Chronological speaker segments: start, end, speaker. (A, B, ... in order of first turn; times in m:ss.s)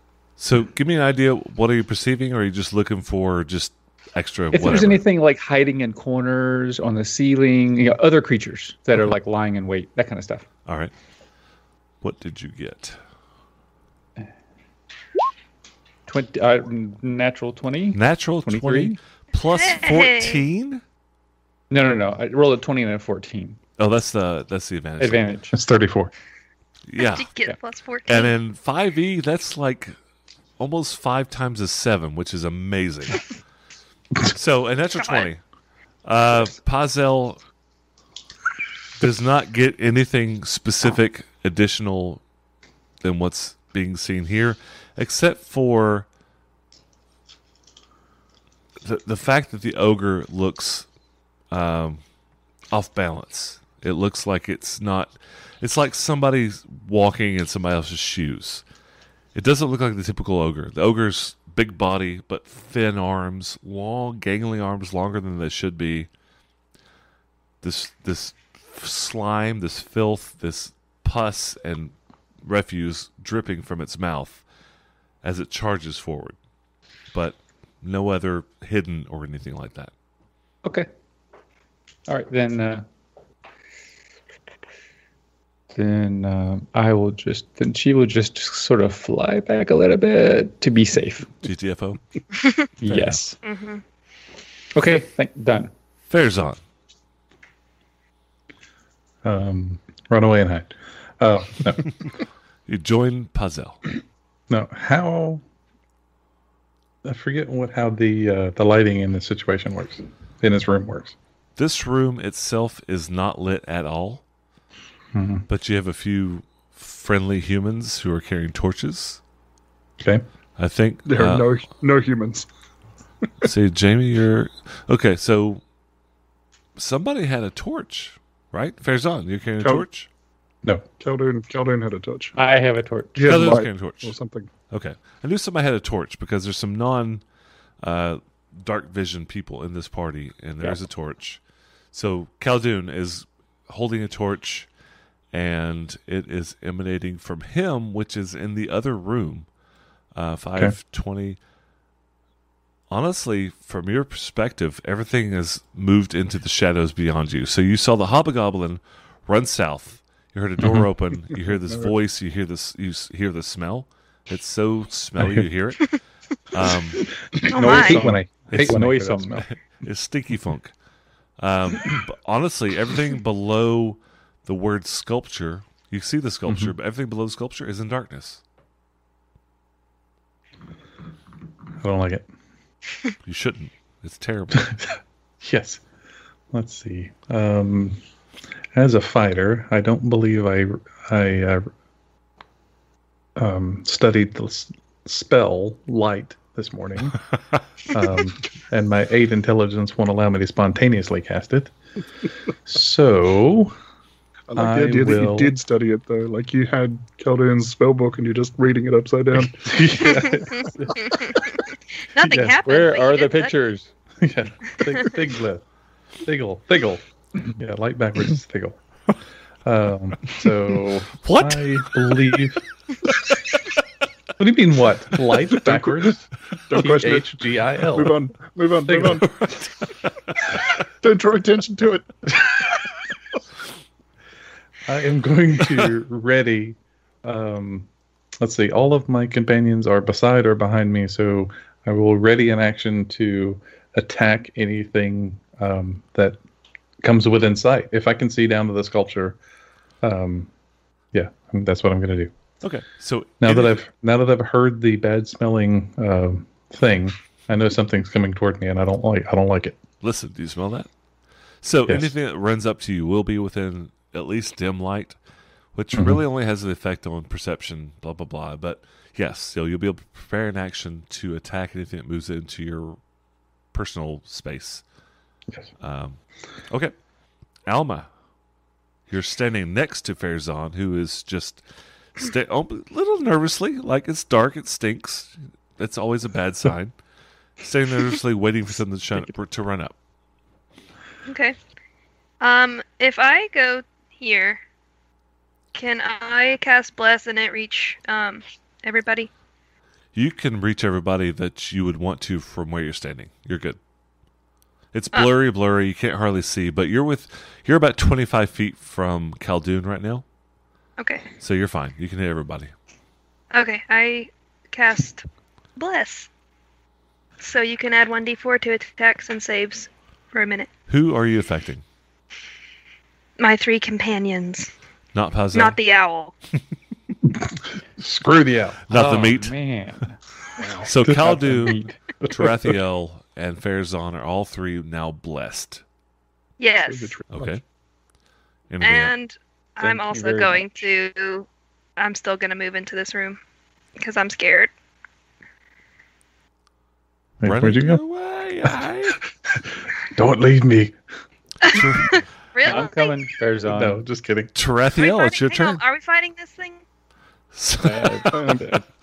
0:00.4-0:05.0 A
0:04.5-0:10.5 B
0:10.7-0:10.9 A
0:12.0-0:13.0 A
0:16.1-0:19.0 B
0:17.9-0:20.8 A
0:19.5-0:20.4 C
0:21.7-0:23.6 B
0:23.8-0:25.3 A
0:25.0-0:25.6 B
0:25.5-0:26.1 D
0:26.9-0:27.3 A
0:27.0-0:28.3 C
0:28.1-0:29.9 A
0:30.6-0:33.3 A
0:34.2-0:35.4 A
0:35.0-0:35.3 C
0:36.0-0:37.4 A
0:39.0-0:42.2 A
0:43.0-0:46.1 A
0:48.8-0:50.9 A
0:51.5-0:52.0 A
0:52.7-0:58.6 A
0:59.3-1:06.1 A
1:07.6-1:14.4 A
1:15.2-1:16.4 A
1:17.1-1:19.9 A
1:22.1-1:22.8 B
1:25.7-1:31.4 B
1:31.4-1:32.0 A
1:32.8-1:33.4 B
1:33.4-1:33.8 C
1:34.8-1:35.7 B
1:36.1-1:36.6 A
1:39.2-1:41.9 D
1:42.7-1:43.8 A
1:44.5-1:45.4 D
1:47.0-1:51.2 D
1:51.6-1:54.2 A
1:55.1-1:55.5 D
1:55.5-1:59.2 A
2:00.0-2:00.2 D
2:00.6-2:01.5 A
2:01.1-2:02.5 E
2:03.4-2:05.6 A
2:06.8-2:10.1 A
2:11.0-2:12.4 E
2:12.4-2:13.6 B
2:13.2-2:14.5 E
2:13.3-2:14.1 A
2:14.7-2:17.2 A
2:17.8-2:21.4 A
2:21.9-2:24.7 A
2:25.3-2:29.5 A
2:30.2-2:31.4 A
2:32.9-2:46.0 A
2:40.6-2:40.9 D
2:45.2-2:45.5 D
2:46.5-2:47.0 A
2:47.2-2:49.4 D
2:47.5-2:48.1 C
2:47.6-2:49.4 B
2:49.8-2:50.7 A
2:51.4-2:58.4 A
2:56.5-2:56.7 D
3:01.8-3:02.3 D
3:03.2-3:04.8 A
3:04.6-3:04.8 D
3:05.4-3:05.8 D
3:06.5-3:08.0 D
3:08.7-3:11.7 D
3:13.4-3:17.2 D
3:17.9-3:21.7 D
3:22.6-3:23.8 D
3:24.5-3:29.9 E
3:24.6-3:25.6 D
3:29.6-3:31.1 D
3:30.1-3:33.5 C
3:32.2-3:32.6 D
3:32.6-3:33.9 B
3:34.2-3:35.6 D
3:36.2-3:38.8 D
3:39.6-3:42.6 D
3:41.2-3:42.4 A
3:44.4-3:48.2 D
3:46.7-3:47.3 E
3:47.9-3:49.4 E
3:48.9-3:49.3 D
3:51.0-3:52.3 E
3:54.8-4:06.4 D
4:07.0-4:09.4 D
4:10.0-4:10.5 D
4:11.1-4:12.3 D
4:12.6-4:13.8 A
4:13.4-4:19.8 D
4:20.0-4:20.9 A
4:21.6-4:25.2 A
4:21.9-4:22.1 D
4:25.8-4:33.0 A
4:26.0-4:26.2 D
4:33.7-4:34.8 A
4:35.8-4:36.2 A
4:37.7-4:38.1 A
4:39.1-4:41.6 A
4:42.2-4:46.9 A
4:47.6-4:49.9 A
4:51.3-4:51.6 C
4:52.4-4:54.6 C
4:55.7-4:59.3 C
5:00.1-5:03.8 A
5:04.9-5:10.2 A
5:11.0-5:11.3 C
5:11.4-5:12.7 A
5:13.5-5:15.2 C
5:15.8-5:16.3 C
5:17.4-5:20.7 C
5:20.9-5:21.8 A
5:23.4-5:24.7 C
5:25.1-5:25.8 A
5:25.5-5:26.4 C
5:27.4-5:28.8 D
5:28.9-5:29.6 A
5:28.9-5:30.2 B
5:30.6-5:30.9 E
5:30.8-5:35.8 A
5:31.0-5:32.7 D
5:31.4-5:31.9 B
5:36.6-5:37.1 C
5:36.8-5:37.6 E
5:37.3-5:37.6 A
5:38.7-5:39.1 A
5:38.8-5:43.4 C
5:39.8-5:40.7 B
5:44.0-5:44.7 C
5:47.4-5:48.0 D
5:47.4-5:49.2 A
5:49.5-5:51.0 D
5:51.6-5:53.2 C
5:51.7-5:52.2 A
5:52.6-5:54.0 B
5:53.7-5:54.5 D
5:54.6-5:55.8 A
5:54.9-5:56.8 C
5:57.5-5:58.6 A
5:57.8-5:58.8 B
5:58.3-5:58.7 E